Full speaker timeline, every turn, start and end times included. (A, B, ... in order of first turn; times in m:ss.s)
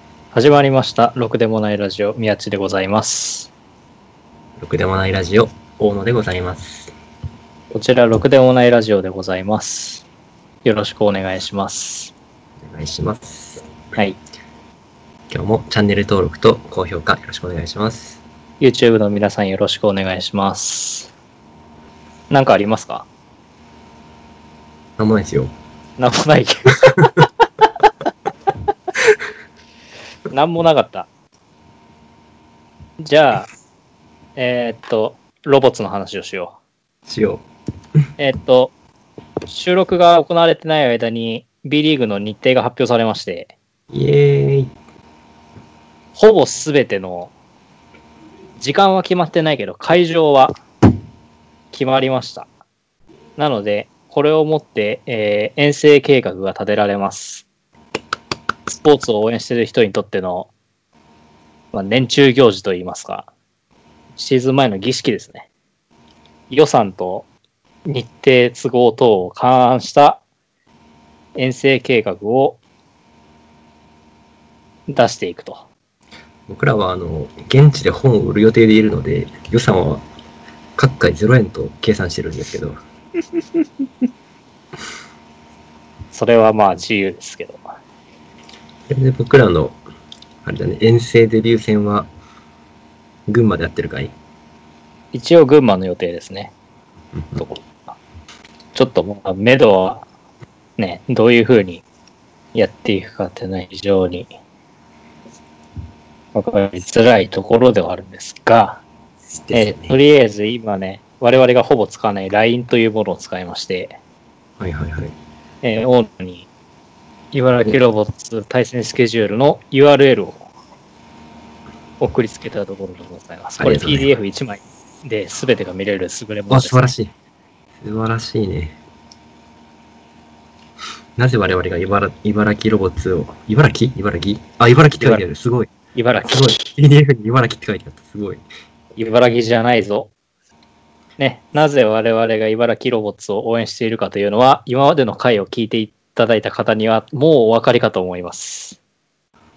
0:00.3-0:03.5 A
0:04.6-0:06.9 B
0:07.7-0:10.1 A
0:10.6-0:12.1 A
0:12.6-0:13.6 B
0:15.3-0:18.2 B
0:18.6-0:21.1 A
0:22.3-0:23.1 A
0:25.0-0:25.5 B
0:26.0-0:27.0 A
0:30.3-0:31.1 A
0:33.0-0:33.5 A
0:34.4-0:36.6 A
0:37.1-0:37.4 B
0:38.2-0:38.7 A
0:39.5-0:43.5 A
0:43.9-0:44.7 B
0:46.1-0:47.3 A
0:48.6-0:50.5 A
0:51.7-0:52.5 A
0:53.4-0:57.4 A
0:58.7-1:00.5 A
1:01.7-1:03.3 A
1:04.2-1:05.5 A
1:06.5-1:07.3 A
1:07.9-1:10.2 A
1:11.4-1:12.6 A
1:14.9-1:15.7 A
1:16.5-1:20.0 B
1:20.8-1:22.8 B
1:26.1-1:27.6 A
1:28.9-1:29.8 B
1:30.4-1:32.1 B
1:33.3-1:34.1 B
1:35.1-1:36.5 A
1:37.2-1:37.4 B
1:37.4-1:37.9 A
1:38.8-1:40.0 A
1:40.8-1:41.8 A
1:42.5-1:44.3 A
1:46.3-1:48.8 A
1:49.3-1:50.0 B
1:49.5-1:54.0 A
1:54.6-1:55.1 B
1:55.6-1:56.5 A
1:57.3-2:00.5 A
2:02.0-2:06.9 A
2:03.6-2:04.1 B
2:06.5-2:07.1 B
2:07.8-2:08.8 B
2:11.2-2:15.7 B
2:14.9-2:15.2 A
2:16.0-2:16.7 A
2:16.3-2:18.4 B
2:19.0-2:20.1 A
2:21.2-2:28.8 A